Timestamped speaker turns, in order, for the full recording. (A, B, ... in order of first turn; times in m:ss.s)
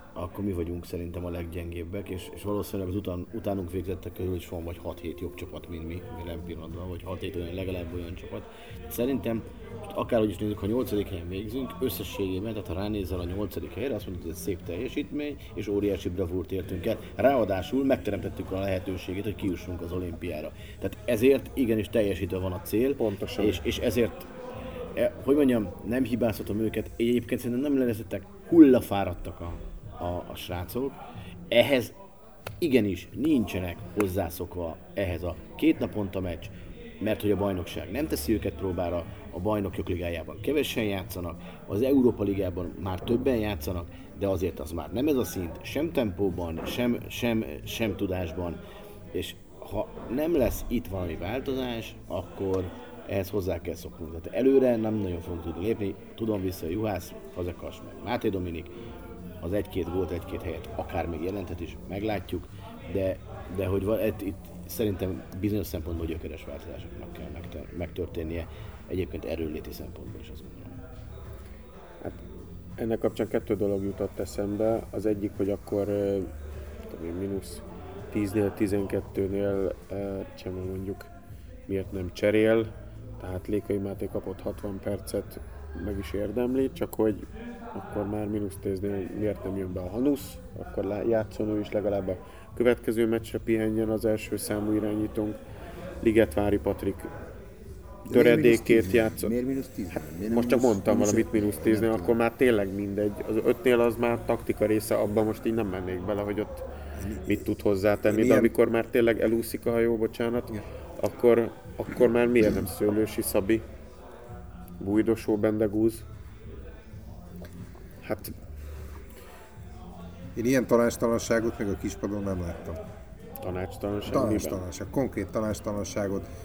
0:00.2-0:24.3 A
0:23.0-0:23.6 B
0:25.0-0:31.0 A
0:31.5-0:31.9 A
0:32.6-0:48.6 A
0:49.1-0:58.7 A
0:59.4-1:10.8 A
1:12.8-1:16.3 B
1:16.9-1:21.1 B
1:21.7-1:35.4 B
1:36.0-1:37.1 B
1:38.1-1:39.3 B
1:38.1-1:42.2 C
1:39.9-1:46.6 B
1:47.0-1:47.3 D
1:47.2-1:53.6 B
1:48.1-1:48.5 D
1:54.8-1:56.1 B
1:58.0-1:58.4 B
2:00.4-2:02.8 D
2:03.4-2:04.6 B
2:04.1-2:06.3 D